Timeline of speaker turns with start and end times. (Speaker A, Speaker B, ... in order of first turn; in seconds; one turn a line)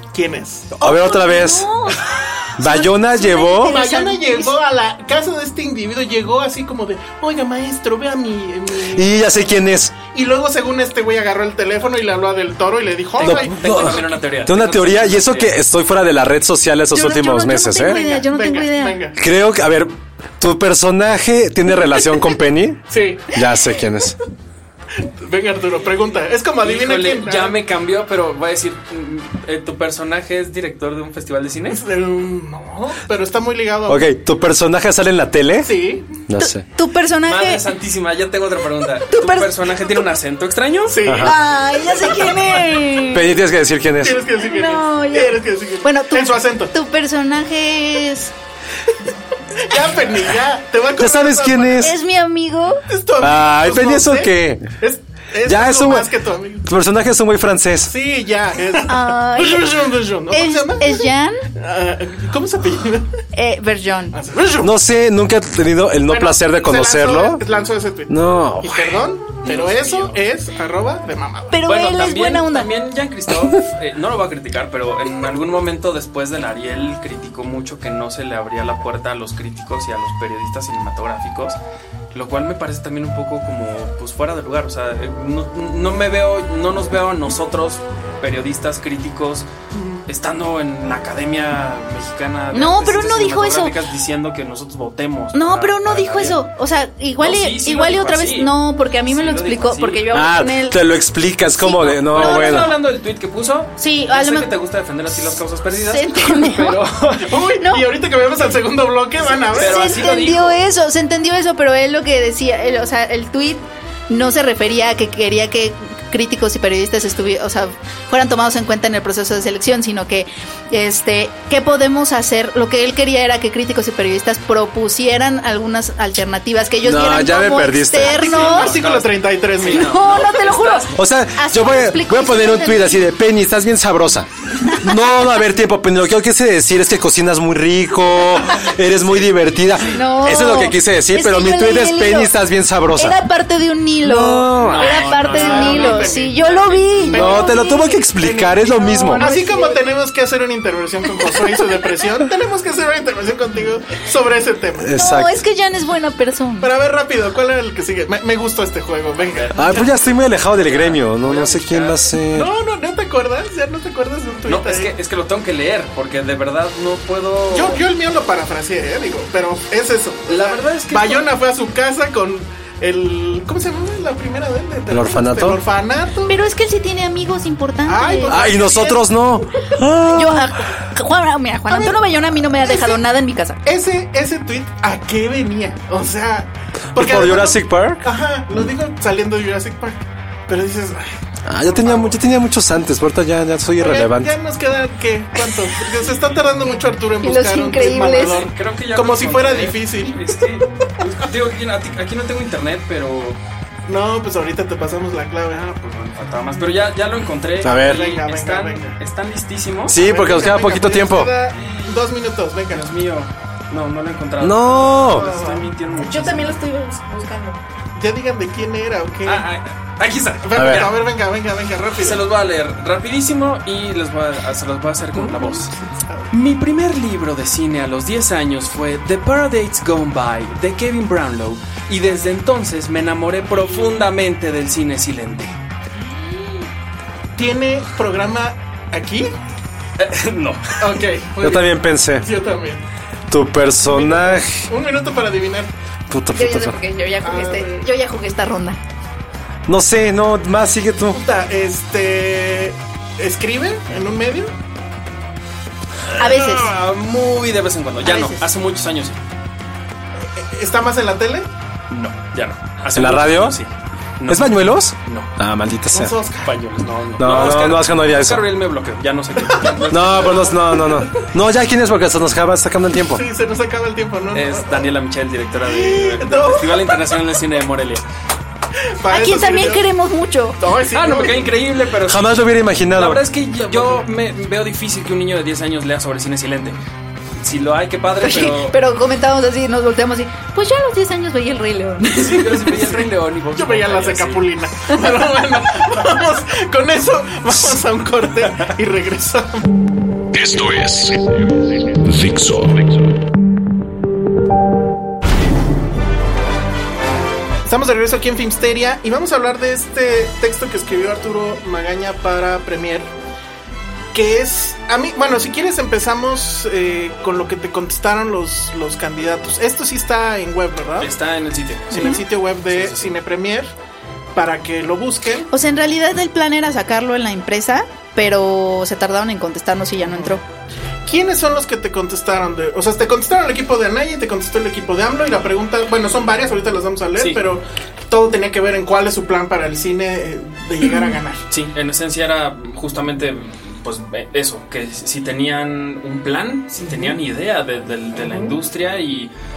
Speaker A: 0.1-0.8
Speaker B: 0.8-1.7
Speaker C: 0.8-4.5
Speaker B: 2.6-3.8
Speaker A: 3.6-9.3
Speaker B: 8.9-9.9
Speaker A: 10.1-13.9
Speaker D: 13.2-15.5
Speaker B: 13.2-18.0
Speaker C: 16.9-19.0
Speaker A: 17.8-19.2
Speaker B: 19.2-24.2
Speaker A: 22.9-23.3
Speaker A: 25.0-27.6
Speaker D: 26.6-31.8
Speaker A: 31.7-34.1
Speaker B: 33.9-35.7
Speaker A: 35.6-36.1
Speaker B: 36.3-36.6
Speaker C: 36.4-37.6
Speaker D: 37.2-41.0
Speaker C: 39.1-39.5
Speaker A: 40.9-42.7
Speaker B: 41.0-41.3
Speaker C: 41.2-43.3
Speaker B: 43.1-44.2
Speaker A: 44.0-46.7
Speaker C: 44.3-48.3
Speaker A: 49.5-51.9
Speaker B: 51.0-51.9
Speaker C: 51.8-52.8
Speaker A: 52.9-56.7
Speaker B: 53.2-54.7
Speaker B: 55.4-56.1
Speaker B: 56.6-57.9
Speaker A: 57.8-63.2
Speaker C: 58.9-61.4
Speaker C: 63.3-64.2
Speaker A: 64.1-64.7
Speaker B: 64.6-67.4
Speaker A: 66.1-71.6
Speaker B: 68.1-69.0
Speaker D: 69.4-70.2
Speaker C: 71.5-72.7
Speaker D: 71.6-81.6
Speaker D: 82.1-89.5
Speaker A: 89.7-90.0
Speaker D: 90.1-96.4
Speaker C: 92.5-93.8
Speaker C: 95.3-100.8
Speaker D: 97.2-100.1
Speaker B: 100.1-102.7
Speaker C: 101.6-102.7
Speaker D: 101.8-107.4
Speaker C: 103.8-104.5
Speaker C: 105.8-106.8
Speaker A: 107.2-110.2
Speaker C: 107.6-107.8
Speaker D: 109.5-110.6
Speaker C: 109.5-128.8
Speaker B: 126.8-128.2
Speaker D: 128.1-130.9
Speaker A: 128.2-130.0
Speaker C: 129.7-133.0
Speaker B: 130.9-143.2
Speaker C: 139.9-142.3
Speaker C: 142.9-148.1
Speaker B: 144.0-145.1
Speaker D: 144.6-147.2
Speaker A: 145.1-155.0
Speaker B: 147.1-149.3
Speaker C: 148.6-149.8
Speaker B: 154.8-155.3
Speaker C: 154.9-156.7
Speaker A: 156.6-159.8
Speaker D: 159.2-159.9
Speaker B: 159.6-162.5
Speaker D: 160.6-162.0
Speaker A: 162.3-164.9
Speaker D: 164.5-167.8
Speaker A: 167.5-176.4
Speaker D: 170.3-171.3
Speaker B: 174.9-175.6
Speaker C: 176.3-178.4
Speaker A: 177.8-179.1
Speaker B: 178.3-180.6
Speaker C: 180.1-183.6
Speaker A: 181.7-183.0
Speaker A: 183.6-192.2
Speaker B: 186.9-188.0
Speaker B: 191.4-194.3
Speaker A: 193.8-200.4
Speaker D: 196.0-196.4
Speaker C: 197.2-198.4
Speaker D: 198.1-203.4
Speaker A: 203.9-205.8
Speaker D: 205.7-210.0
Speaker B: 207.6-208.0
Speaker A: 207.6-209.0
Speaker B: 209.9-211.3
Speaker A: 209.9-212.8
Speaker D: 212.7-216.6
Speaker B: 214.4-215.2
Speaker A: 215.0-215.7
Speaker C: 216.0-217.6
Speaker A: 217.9-219.4
Speaker D: 219.2-221.0
Speaker A: 220.4-222.2
Speaker B: 220.6-220.9
Speaker D: 222.0-225.7
Speaker A: 225.2-226.3
Speaker D: 226.3-235.5
Speaker A: 237.3-239.3
Speaker D: 240.0-241.0
Speaker A: 240.8-242.8
Speaker B: 241.4-242.3
Speaker B: 243.3-244.7
Speaker A: 243.9-245.7
Speaker B: 246.1-246.8
Speaker C: 246.3-248.8
Speaker A: 247.2-247.9
Speaker B: 249.7-251.2
Speaker A: 251.1-254.5
Speaker D: 256.2-259.2
Speaker C: 256.2-256.7
Speaker C: 258.0-258.4
Speaker A: 260.2-261.5
Speaker D: 261.9-265.3
Speaker B: 262.9-263.6
Speaker B: 264.3-266.1
Speaker A: 265.9-266.5
Speaker D: 266.4-270.6
Speaker B: 267.2-268.5
Speaker A: 267.3-267.6
Speaker A: 269.4-271.2
Speaker B: 269.9-273.2
Speaker A: 273.1-274.9
Speaker D: 274.3-278.0
Speaker A: 275.6-277.1
Speaker A: 278.9-279.9
Speaker C: 279.1-280.6
Speaker A: 280.6-281.6
Speaker D: 280.9-282.3
Speaker B: 282.0-283.2
Speaker D: 282.9-286.8
Speaker A: 283.6-284.0
Speaker D: 287.4-288.8
Speaker C: 288.2-292.7
Speaker D: 292.1-294.5
Speaker A: 292.7-299.7
Speaker D: 298.4-298.7
Speaker E: 300.3-303.1
Speaker A: 307.6-313.1
Speaker A: 314.1-321.1
Speaker D: 321.0-323.2
Speaker A: 321.9-323.7
Speaker C: 321.9-322.2
Speaker A: 324.3-325.5
Speaker C: 325.5-330.4
Speaker A: 330.0-330.4
Speaker A: 331.1-341.4
Speaker D: 337.1-337.4
Speaker D: 341.5-349.3
Speaker A: 346.8-347.2
Speaker A: 348.1-348.5